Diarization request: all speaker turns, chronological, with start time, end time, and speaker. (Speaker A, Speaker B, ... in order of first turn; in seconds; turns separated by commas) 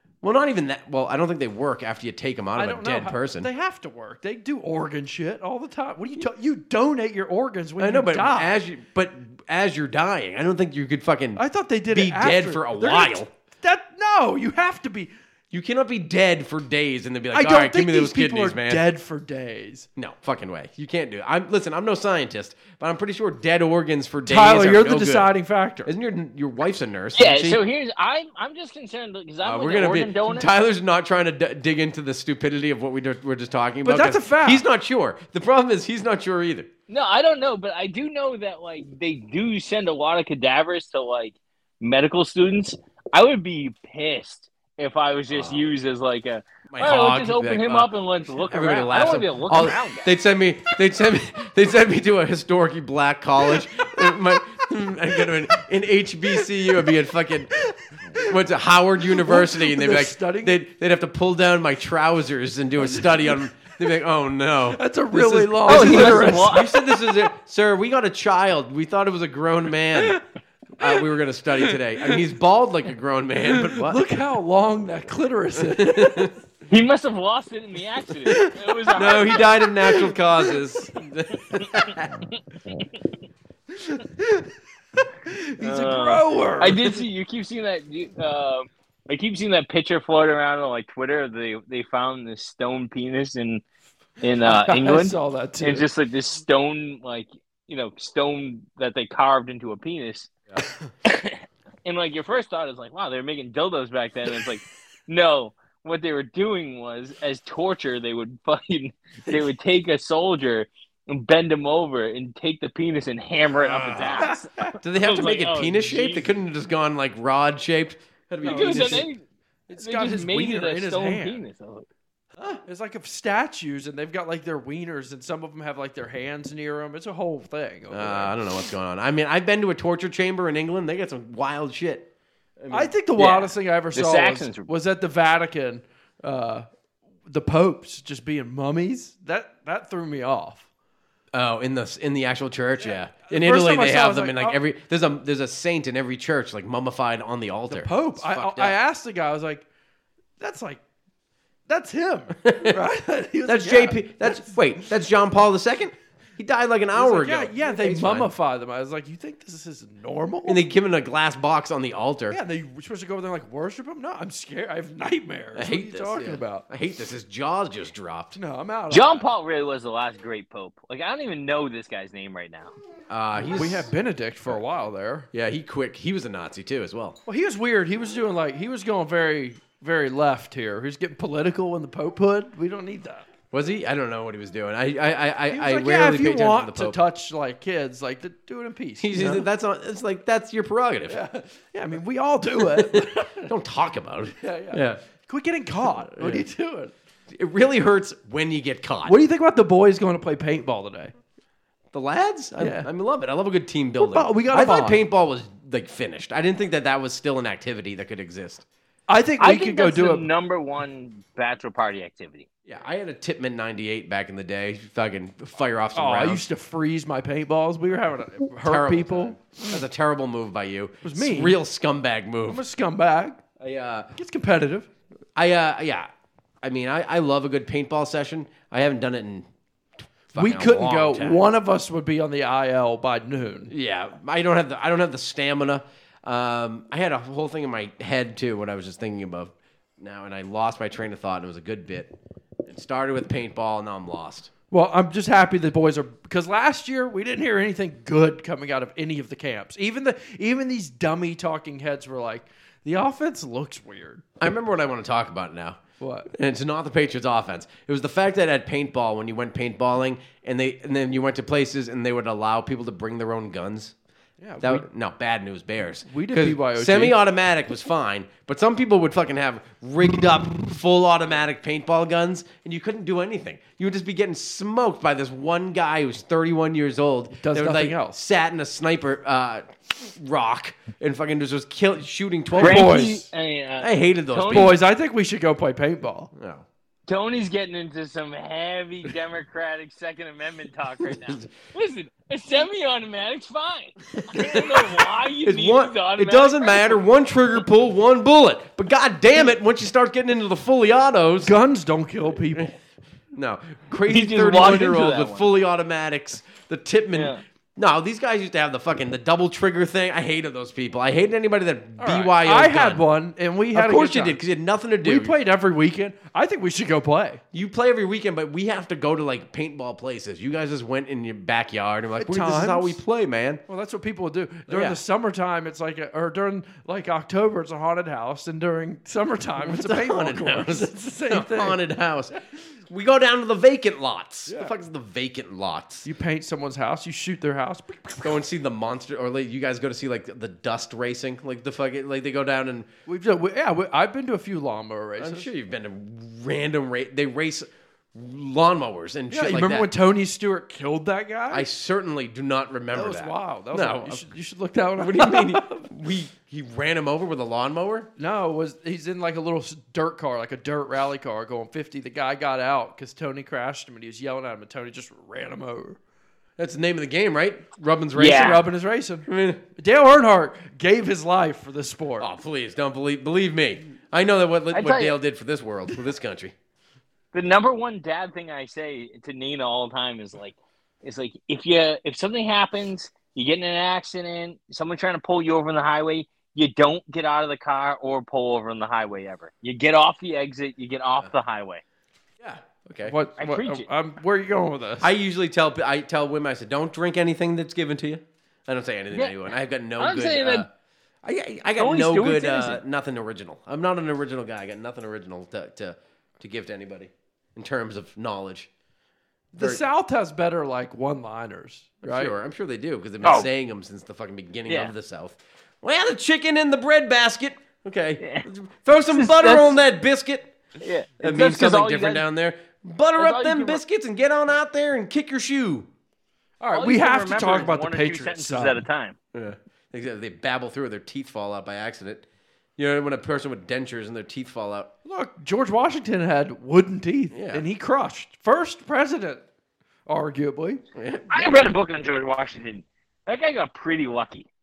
Speaker A: 0.2-3.5, Speaker B: 2.5-8.6, Speaker A: 7.8-13.3, Speaker B: 11.3-15.1, Speaker A: 15.5-18.9, Speaker B: 17.3-19.9, Speaker A: 20.0-25.3, Speaker B: 24.2-25.9, Speaker A: 25.8-27.6, Speaker C: 27.1-30.5, Speaker A: 29.4-36.7, Speaker B: 33.8-34.6, Speaker C: 36.9-50.1, Speaker A: 45.3-45.7, Speaker A: 46.7-57.5, Speaker B: 57.6-58.3, Speaker A: 58.1-70.2, Speaker B: 59.1-60.6, Speaker B: 64.7-66.7, Speaker C: 65.7-66.7, Speaker A: 70.8-74.0, Speaker B: 71.7-72.2, Speaker B: 73.5-76.3, Speaker A: 75.6-76.3, Speaker C: 76.7-79.5, Speaker A: 78.9-82.1, Speaker B: 83.8-87.0, Speaker C: 85.6-93.6, Speaker C: 94.2-100.3, Speaker B: 94.4-95.9, Speaker C: 101.0-116.3, Speaker A: 113.5-114.3, Speaker B: 114.2-114.7, Speaker A: 114.8-119.1, Speaker B: 118.4-119.1, Speaker C: 118.4-119.2, Speaker B: 119.7-121.4, Speaker C: 119.8-121.9, Speaker B: 122.6-128.3, Speaker A: 127.9-132.9, Speaker B: 132.7-136.7, Speaker C: 133.2-134.7, Speaker B: 137.3-140.7, Speaker A: 141.3-148.8, Speaker B: 142.8-144.6, Speaker B: 147.7-149.7, Speaker B: 150.4-150.8, Speaker B: 151.7-154.6, Speaker A: 152.4-152.8, Speaker A: 153.4-158.3, Speaker B: 156.9-160.6, Speaker A: 160.4-162.4, Speaker B: 162.3-166.7, Speaker A: 165.5-168.4, Speaker B: 168.3-169.3, Speaker C: 168.9-172.7, Speaker A: 173.1-173.9, Speaker B: 173.5-175.3, Speaker A: 175.3-177.2, Speaker B: 177.3-183.2, Speaker A: 183.5-187.0, Speaker B: 185.5-189.4, Speaker A: 189.0-191.2, Speaker B: 191.1-193.5, Speaker A: 192.6-195.0, Speaker B: 194.4-196.9, Speaker A: 196.0-196.4, Speaker A: 197.3-199.2, Speaker B: 199.0-201.1, Speaker A: 201.9-208.6, Speaker B: 202.6-202.9, Speaker B: 204.0-205.0, Speaker B: 209.1-210.2, Speaker C: 209.4-212.5, Speaker A: 212.7-216.4, Speaker B: 215.9-219.7, Speaker A: 218.6-222.6, Speaker B: 221.0-221.6, Speaker B: 222.5-223.4, Speaker A: 223.6-224.1, Speaker B: 224.2-224.9, Speaker A: 225.3-226.1, Speaker A: 226.6-229.5, Speaker A: 230.3-231.4, Speaker B: 230.3-233.7, Speaker A: 233.7-242.1, Speaker A: 242.7-244.5, Speaker B: 244.7-254.2, Speaker A: 254.4-255.8, Speaker B: 256.0-256.3, Speaker A: 256.3-263.9, Speaker B: 264.4-264.9, Speaker A: 264.6-283.1, Speaker B: 266.1-267.2, Speaker B: 277.4-278.2, Speaker B: 282.6-283.2, Speaker C: 282.6-284.7, Speaker A: 283.8-284.8, Speaker B: 284.5-286.3, Speaker A: 286.3-286.6, Speaker C: 287.1-297.0, Speaker A: 291.1-291.4, Speaker A: 294.2-294.9, Speaker A: 295.4-301.5, Speaker B: 301.4-302.7, Speaker A: 302.5-302.8, Speaker A: 303.3-313.0, Speaker C: 304.1-305.5, Speaker C: 307.1-307.4, Speaker B: 312.0-314.4, Speaker A: 313.7-315.4, Speaker B: 315.0-317.4, Speaker A: 317.5-323.6, Speaker B: 322.2-323.0, Speaker B: 323.7-331.8, Speaker A: 324.7-325.0, Speaker A: 329.6-336.1, Speaker B: 334.5-334.7, Speaker B: 336.0-338.4, Speaker A: 338.2-342.9, Speaker B: 343.1-345.5, Speaker A: 345.2-349.9, Speaker B: 349.3-351.7, Speaker A: 351.5-354.3, Speaker B: 352.9-355.9, Speaker A: 355.0-358.1, Speaker B: 358.2-366.0, Speaker A: 366.6-368.6, Speaker C: 368.2-368.6, Speaker B: 368.2-372.3, Speaker A: 369.2-369.6, Speaker A: 372.2-376.5, Speaker C: 374.7-375.1, Speaker C: 377.3-391.8, Speaker A: 392.4-393.2, Speaker B: 393.0-395.1, Speaker C: 393.4-393.9, Speaker A: 395.0-400.7, Speaker C: 399.1-399.4, Speaker C: 400.0-400.6, Speaker A: 401.2-408.7, Speaker C: 401.8-402.8, Speaker B: 409.5-412.3, Speaker A: 409.6-409.8, Speaker A: 412.0-420.5, Speaker C: 413.2-413.5, Speaker C: 418.2-418.5, Speaker C: 419.1-419.8, Speaker C: 420.8-422.2, Speaker A: 421.2-425.9, Speaker C: 423.2-423.8, Speaker B: 426.6-428.8, Speaker C: 426.7-429.1, Speaker A: 429.3-432.2, Speaker A: 432.8-434.9, Speaker B: 435.1-439.4, Speaker A: 437.3-437.6, Speaker B: 440.1-440.8, Speaker A: 440.9-441.4, Speaker C: 441.3-444.5